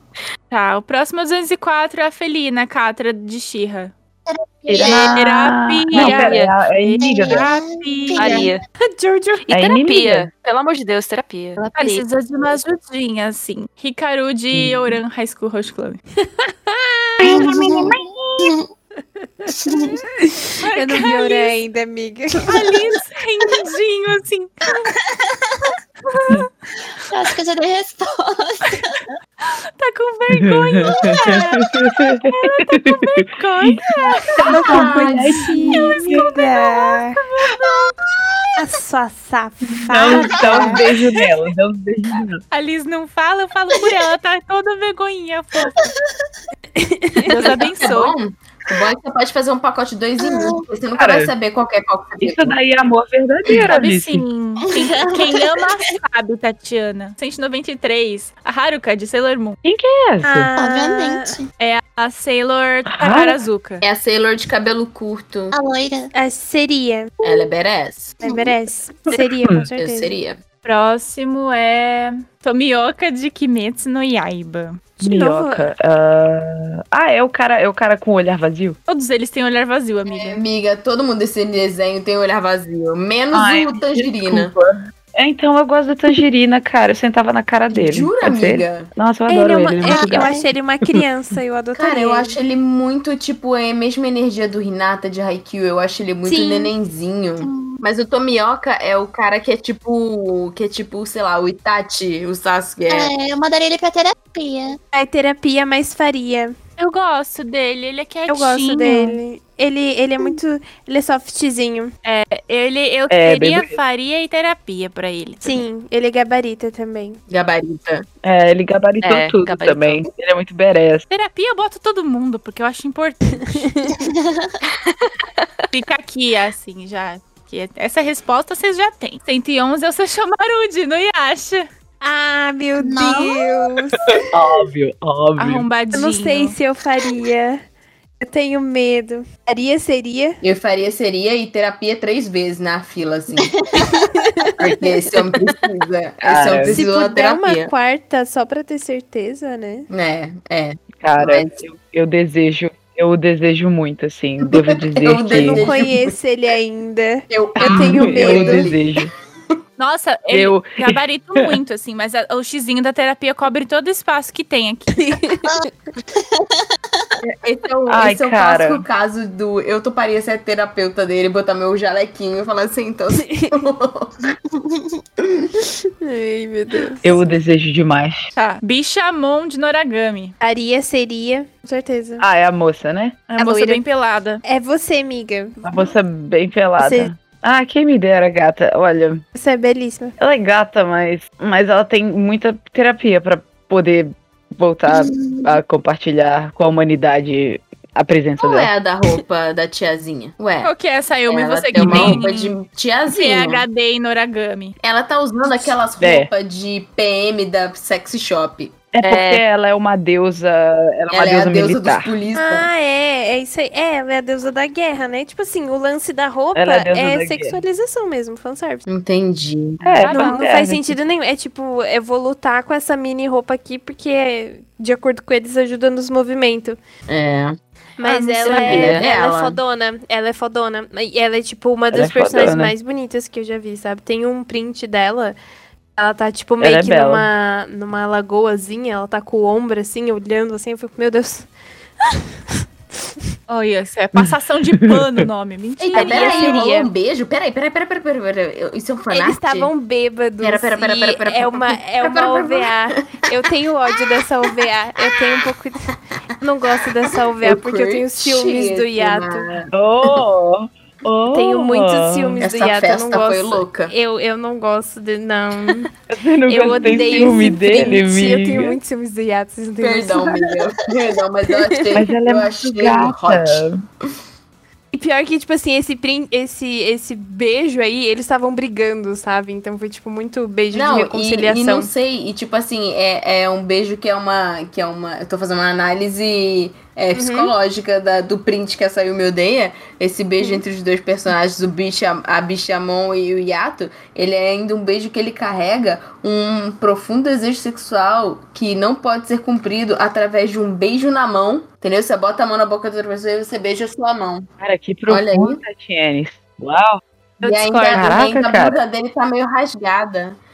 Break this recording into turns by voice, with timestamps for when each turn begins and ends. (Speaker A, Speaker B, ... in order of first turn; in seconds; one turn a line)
Speaker A: 0.5-3.9
Speaker B: 4.3-5.2
Speaker C: 4.7-7.5
Speaker A: 4.8-8.5
Speaker D: 5.9-6.5
Speaker B: 7.0-8.5
Speaker D: 8.2-8.6
Speaker E: 8.8-9.5
Speaker D: 9.5-12.0
Speaker C: 9.5-10.3
Speaker A: 11.7-16.0
Speaker C: 14.5-15.0
Speaker E: 16.4-17.3
Speaker C: 17.2-18.5
Speaker B: 17.2-18.7
Speaker B: 19.5-20.0
Speaker A: 20.6-21.5
Speaker E: 20.7-22.8
Speaker A: 22.4-24.9
Speaker B: 24.8-25.5
Speaker B: 27.1-29.1
Speaker A: 29.8-37.9
Speaker C: 30.3-36.2
Speaker E: 34.5-37.2
Speaker B: 37.6-37.9
Speaker E: 38.5-40.8
Speaker C: 39.6-42.4
Speaker B: 40.3-40.8
Speaker A: 42.5-45.8
Speaker B: 45.8-46.3
Speaker E: 46.7-47.4
Speaker A: 47.2-48.1
Speaker F: 47.4-52.5
Speaker B: 50.2-50.6
Speaker C: 51.0-51.3
Speaker C: 52.2-54.2
Speaker A: 53.7-59.6
Speaker B: 54.6-55.9
Speaker C: 59.6-60.5
Speaker E: 60.2-61.3
Speaker B: 60.5-61.5
Speaker A: 61.6-63.8
Speaker C: 62.9-63.4
Speaker F: 63.8-65.5
Speaker B: 65.5-66.1
Speaker E: 66.1-67.3
Speaker F: 67.2-68.2
Speaker B: 68.2-68.5
Speaker E: 68.2-70.1
Speaker F: 69.8-70.4
Speaker A: 70.6-74.8
Speaker E: 75.0-75.7
Speaker C: 75.0-78.8
Speaker A: 78.9-80.4
Speaker F: 80.1-84.5
Speaker C: 83.3-91.0
Speaker F: 87.7-88.9
Speaker E: 89.3-92.4
Speaker B: 89.8-90.4
Speaker F: 91.7-103.1
Speaker E: 96.2-96.7
Speaker B: 97.4-97.8
Speaker B: 102.9-104.8
Speaker E: 104.9-106.5
Speaker A: 106.8-109.2
Speaker E: 108.3-111.9
Speaker A: 112.0-115.6
Speaker C: 113.1-113.8
Speaker E: 115.4-117.2
Speaker F: 117.3-118.0
Speaker C: 118.2-121.0
Speaker D: 119.0-120.0
Speaker A: 121.1-123.7
Speaker E: 123.5-123.9
Speaker B: 123.9-124.5
Speaker A: 125.7-131.7
Speaker E: 132.0-134.0
Speaker B: 132.8-133.5
Speaker C: 134.3-135.7
Speaker A: 135.4-136.6
Speaker E: 135.9-137.6
Speaker E: 138.2-140.4
Speaker F: 140.4-143.6
Speaker E: 143.7-144.8
Speaker F: 144.6-147.7
Speaker C: 146.2-146.8
Speaker E: 146.7-149.9
Speaker F: 149.9-151.6
Speaker C: 151.0-155.7
Speaker F: 154.5-156.1
Speaker E: 155.3-158.7
Speaker F: 157.3-159.1
Speaker C: 157.6-159.1
Speaker A: 159.8-165.1
Speaker C: 160.3-161.6
Speaker E: 165.0-165.5
Speaker B: 165.4-166.5
Speaker F: 167.2-174.2
Speaker C: 167.9-168.8
Speaker B: 174.4-175.0
Speaker E: 176.0-177.2
Speaker C: 177.0-178.3
Speaker A: 178.3-180.3
Speaker E: 180.4-182.2
Speaker C: 182.2-183.2
Speaker A: 183.3-184.4
Speaker E: 183.4-183.8
Speaker E: 184.4-185.6
Speaker C: 185.6-189.2
Speaker E: 186.8-187.1
Speaker E: 189.3-190.1
Speaker C: 190.2-198.7
Speaker B: 194.9-195.6
Speaker F: 198.4-200.7
Speaker A: 200.6-202.5
Speaker F: 201.3-203.6
Speaker C: 201.7-202.2
Speaker A: 203.1-204.7
Speaker F: 204.8-208.7
Speaker C: 206.0-206.3
Speaker C: 208.9-212.1
Speaker D: 209.0-209.4
Speaker F: 211.1-212.7
Speaker E: 212.3-218.8
Speaker C: 216.5-217.6
Speaker F: 218.9-220.0
Speaker C: 219.8-221.0
Speaker E: 220.1-226.8
Speaker F: 227.1-227.6
Speaker E: 228.0-235.3
Speaker A: 228.0-228.8
Speaker D: 228.5-229.0
Speaker F: 228.6-229.6
Speaker C: 231.9-232.7
Speaker E: 236.0-241.5
Speaker C: 236.6-237.3
Speaker A: 243.5-246.6
Speaker C: 244.2-245.2
Speaker F: 245.8-249.7
Speaker E: 245.9-246.9
Speaker E: 249.1-259.5
Speaker F: 250.4-253.0
Speaker F: 257.4-260.1
Speaker C: 259.7-262.4
Speaker E: 261.3-265.9
Speaker F: 262.4-263.9
Speaker C: 266.1-268.8
Speaker E: 266.5-270.4
Speaker F: 266.7-267.4
Speaker F: 269.8-273.6
Speaker C: 271.9-273.8
Speaker E: 274.9-281.9
Speaker F: 280.7-304.5
Speaker E: 287.1-287.5
Speaker C: 304.6-307.0
Speaker F: 305.1-305.6
Speaker E: 307.4-308.4
Speaker F: 307.4-310.4
Speaker C: 307.9-308.8